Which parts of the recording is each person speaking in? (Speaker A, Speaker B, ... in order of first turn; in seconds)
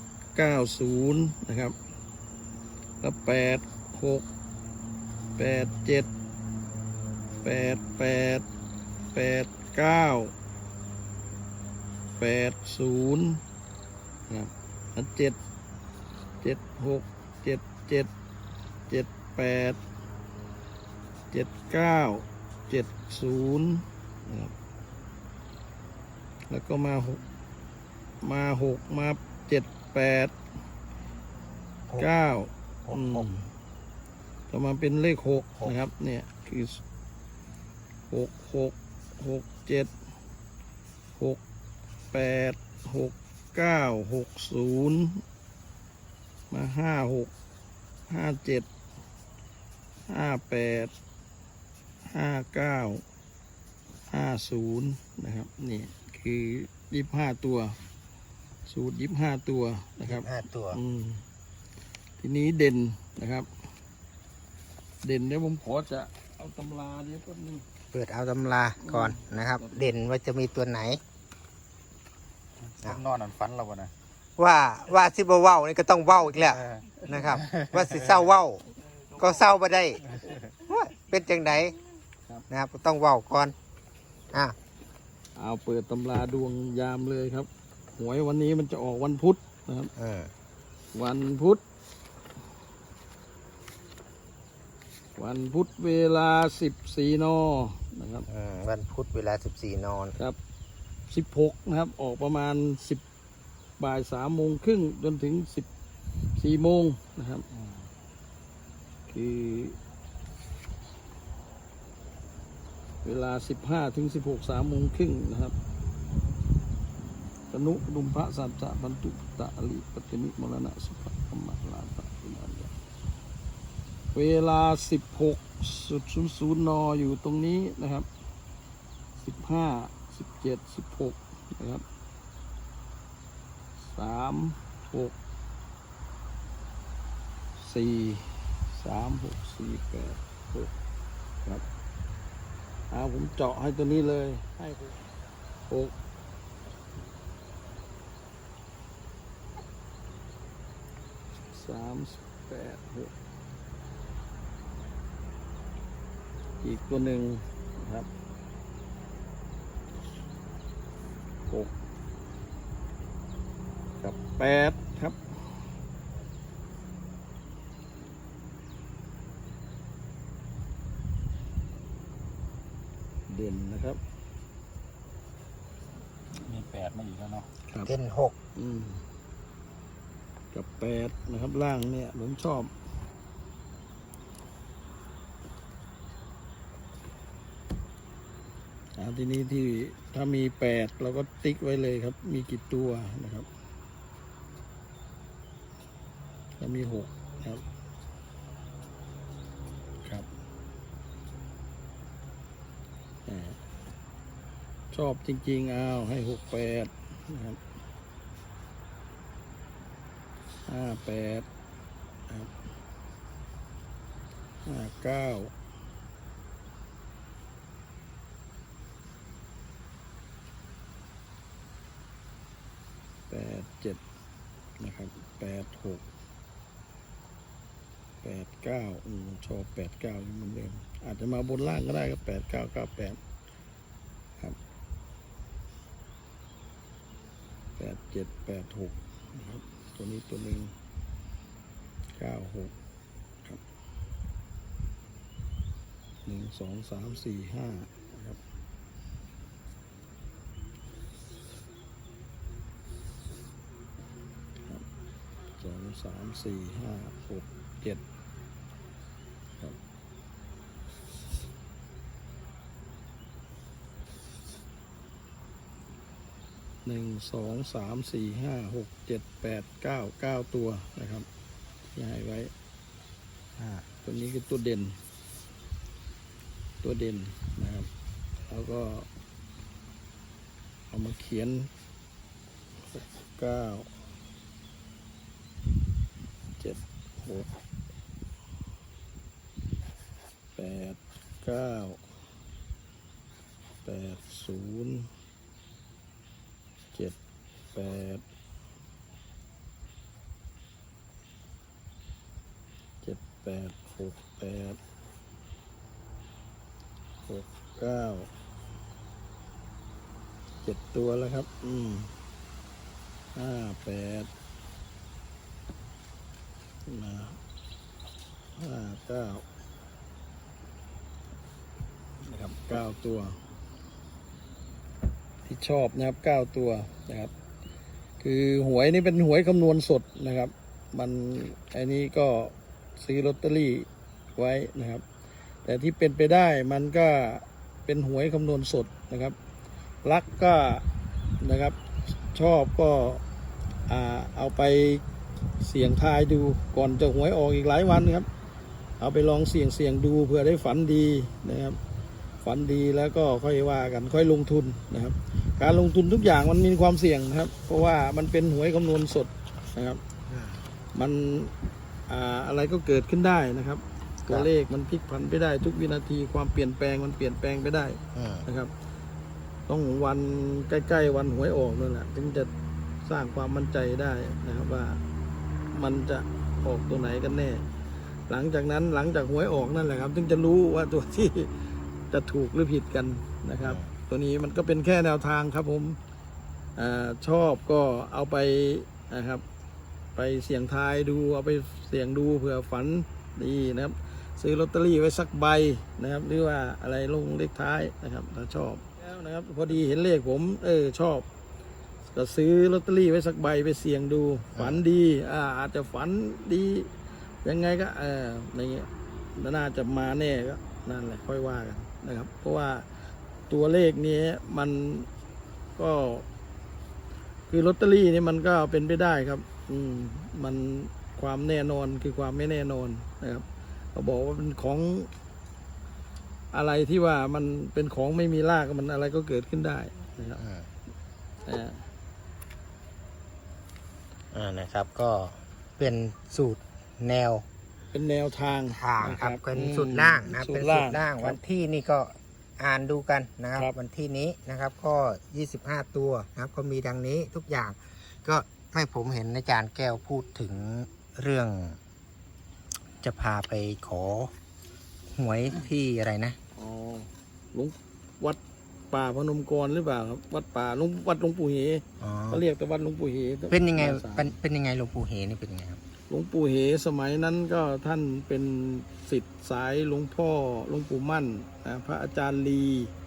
Speaker A: 0.3-1.7, 3.0-4.2, 5.4-6.1, 7.4-8.4, 9.1-10.3, 12.2-13.4, 14.3-15.4, 16.4-18.1, 18.9-19.8, 21.3-24.5, 26.5-27.2, 28.2-30.3, 31.9-33.5, 34.5-36.8, 38.1-39.9, 42.1-45.2, 46.5-47.3, 48.1-48.7, 50.1-50.9, 52.1-53.0, 54.1-57.8, 58.6-61.2, 62.2-63.5, 65.0-67.6, 68.8-69.9, 85.3-89.9, 90.9-91.6, 95.2-98.3, 101.1-103.0, 103.8-105.7, 106.4-107.5, 109.1-109.8, 113.0-115.5, 117.5-122.7, 124.1-128.1, 129.2-131.8, 133.9-135.1, 137.6-140.7, 142.9-145.0, 151.4-153.1, 156.6-158.1, 164.0-165.2, 173.3-174.0, 178.6-179.0, 180.5-182.7, 189.0-193.5, 196.6-197.6, 203.2-203.6, 204.9-207.6, 210.7-211.4, 214.7-215.5, 223.3-224.0, 224.8-226.0, 228.2-233.2, 237.8-240.7, 242.2-242.7, 246.2-248.4, 255.6-258.0, 266.8-271.3, 271.9-272.5, 273.7-275.0, 276.8-277.9, 278.5-279.1, 280.9-281.7, 282.9-283.9, 286.6-287.5, 290.6-292.0, 293.8-295.1, 297.7-298.2, 303.0-304.8, 307.3-308.3, 310.6-312.1, 313.3-314.3, 316.9-317.4, 318.6-319.4, 322.2-323.4, 325.4-327.3, 328.2-335.0, 335.6-339.3, 340.0-340.8, 341.4-341.8, 342.3-343.2, 343.9-345.0, 345.6-348.3, 349.0-351.8, 352.4-360.0, 360.9-361.5, 362.1-368.7, 369.7-372.5, 373.0-375.0, 375.7-377.6, 378.3-381.5, 382.1-386.0, 386.8-389.4, 390.1-401.2, 402.1-406.9, 407.4-412.9, 413.5-415.1, 415.8-416.2, 417.5-425.1, 426.5-430.4, 431.4-431.8, 437.9-441.4, 456.6-458.4, 458.9-464.3, 466.1-472.9
Speaker B: 32.8-33.3, 60.1-60.8, 67.9-71.0, 74.4-78.6, 79.2-80.0, 80.6-81.8, 82.5-83.5, 90.0-90.3, 98.3-100.2, 177.8-178.3, 360.3-360.6, 368.1-368.4, 383.6-383.9, 404.5-404.8, 430.4-430.7, 434.3-437.4, 438.7-451.8, 453.0-454.3, 455.1-456.4, 462.0-462.4, 463.5-465.8
Speaker C: 72.8-73.9, 77.4-77.9, 176.4-177.5